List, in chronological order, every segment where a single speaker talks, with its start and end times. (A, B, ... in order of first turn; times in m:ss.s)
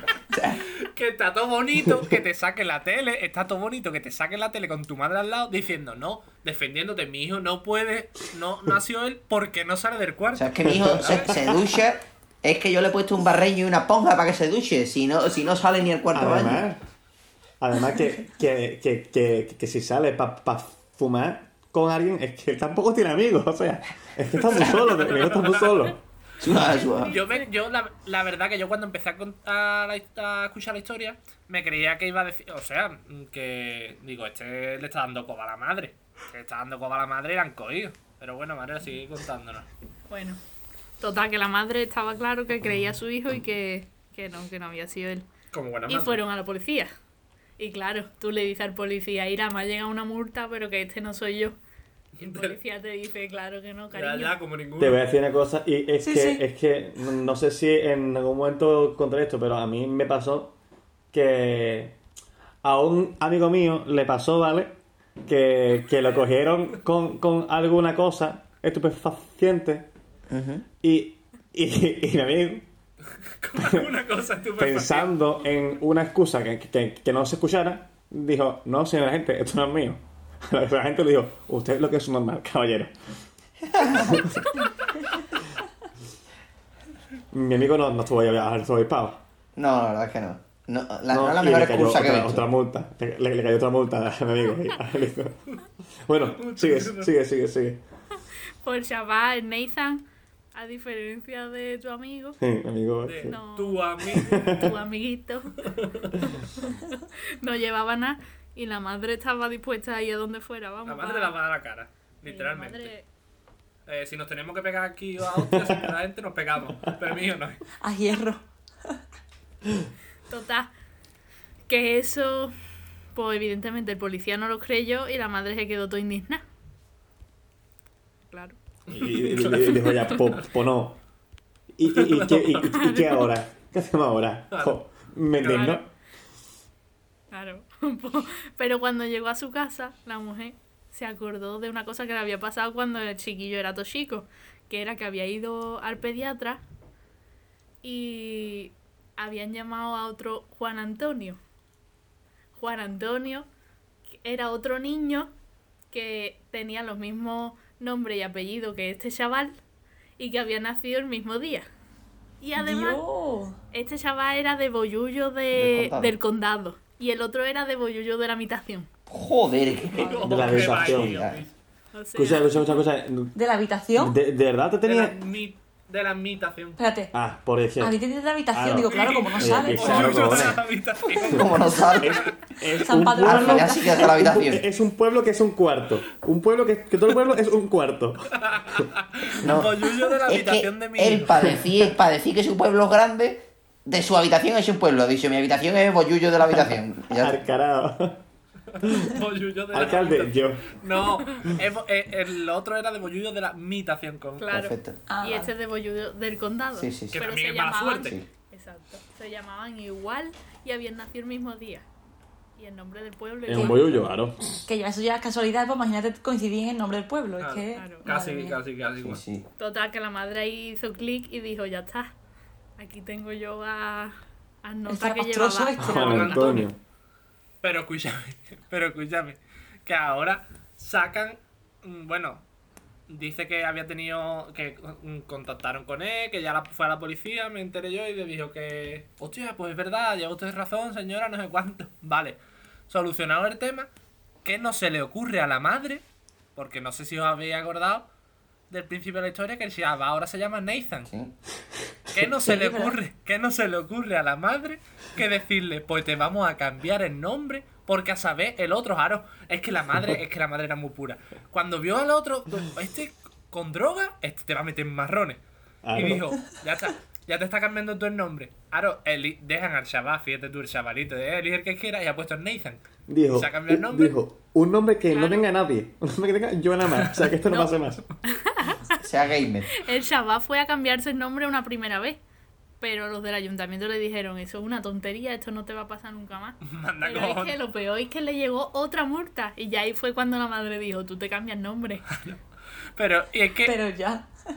0:00.3-0:00.6 A
0:00.7-0:11.4 B
0:10.4-0:16.6 A
0:10.6-0:11.6 C
0:16.1-0:16.8 C
0:17.6-0:26.0 C
0:24.4-0:25.9 B
0:26.4-0:27.1 A
0:26.5-0:27.5 D
0:27.0-0:39.7 B
0:40.1-0:40.4 D
0:41.0-0:45.3 D
0:45.5-0:46.2 B
0:45.9-0:46.9 D
0:47.6-0:51.6 D
0:52.2-0:52.6 B
0:52.2-0:54.4 D
0:53.9-0:55.0 B
0:54.8-1:00.6 C
0:56.0-0:56.4 E
1:01.1-1:02.0 C
1:02.6-1:09.9 C
1:10.3-1:10.6 A
1:10.8-1:12.7 C
1:13.4-1:15.3 B
1:13.6-1:13.9 C
1:14.6-1:22.9 C
1:23.7-1:24.4 A
1:23.9-1:24.4 C
1:27.3-1:29.2 C
1:29.6-1:32.5 A
1:31.1-1:35.4 C
1:36.1-1:37.8 C
1:36.4-1:37.1 B
1:38.6-1:42.4 D
1:42.4-1:43.4 C
1:43.0-1:44.5 B
1:43.2-1:45.6 D
1:44.1-1:44.7 C
1:45.6-1:46.1 B
1:46.2-1:51.4 D
1:50.9-1:52.9 B
1:52.2-1:53.1 D
1:53.9-1:57.6 B
1:55.5-1:55.8 C
1:57.8-1:59.0 E
2:00.3-2:00.7 D
2:01.7-2:02.5 D
2:03.1-2:06.4 D
2:08.3-2:08.6 D
2:08.9-2:11.0 C
2:09.0-2:09.9 B
2:11.8-2:15.8 C
2:11.9-2:12.7 B
2:12.7-2:13.3 D
2:14.5-2:14.8 B
2:15.4-2:15.8 B
2:15.5-2:15.8 D
2:17.3-2:26.6 D
2:27.8-2:31.4 D
2:32.6-2:33.5 D
2:34.2-2:35.3 D
2:35.9-2:39.6 D
2:40.2-2:41.7 D
2:42.4-2:43.0 D
2:42.6-2:43.6 E
2:43.7-2:48.9 D
2:45.5-2:46.1 A
2:49.1-2:51.4 A
2:50.0-2:51.5 B
2:50.2-2:51.2 C
2:51.9-2:52.6 D
2:52.2-2:53.3 C
2:53.4-2:54.2 E
2:54.0-2:55.2 C
2:54.8-2:56.8 B
2:56.8-2:57.1 E
2:57.1-2:58.0 C
2:57.8-3:00.4 E
2:58.5-3:00.6 C
2:58.9-3:02.3 B
3:01.2-3:02.4 A
3:02.0-3:08.8 C
3:02.8-3:04.1 E
3:03.2-3:04.6 A
3:08.4-3:11.7 B
3:09.4-3:09.8 A
3:10.3-3:17.4 A
3:16.5-3:18.2 C
3:18.8-3:24.5 B
3:18.8-3:19.2 C
3:19.7-3:20.7 C
3:24.4-3:31.9 D
3:24.5-3:25.0 A
3:25.1-3:25.5 E
3:26.8-3:27.2 A
3:27.1-3:28.2 B
3:32.6-3:34.0 D
3:33.5-3:34.4 C
3:34.7-3:38.6 E
3:37.4-3:39.2 B
3:37.7-3:38.1 D
3:39.0-3:39.5 A
3:39.6-3:42.1 D
3:42.8-3:46.7 D
3:44.9-3:46.4 E
3:45.8-3:46.8 C
3:46.0-3:46.7 B
3:47.6-3:52.4 B
3:53.1-4:02.4 B
4:02.9-4:03.9 B
4:04.4-4:06.0 B
4:06.6-4:08.1 B
4:08.7-4:11.1 B
4:11.1-4:11.3 A
4:12.1-4:25.4 B
4:12.4-4:13.0 E
4:25.8-4:26.3 C
4:25.9-4:34.2 B
4:33.1-4:38.0 C
4:35.1-4:35.4 D
4:37.0-4:37.3 B
4:37.5-4:39.0 D
4:39.0-4:39.7 A
4:39.7-4:42.2 D
4:42.8-4:52.0 D
4:46.7-4:47.6 B
4:52.1-4:52.4 B
4:53.0-4:53.8 B
4:53.6-4:54.3 E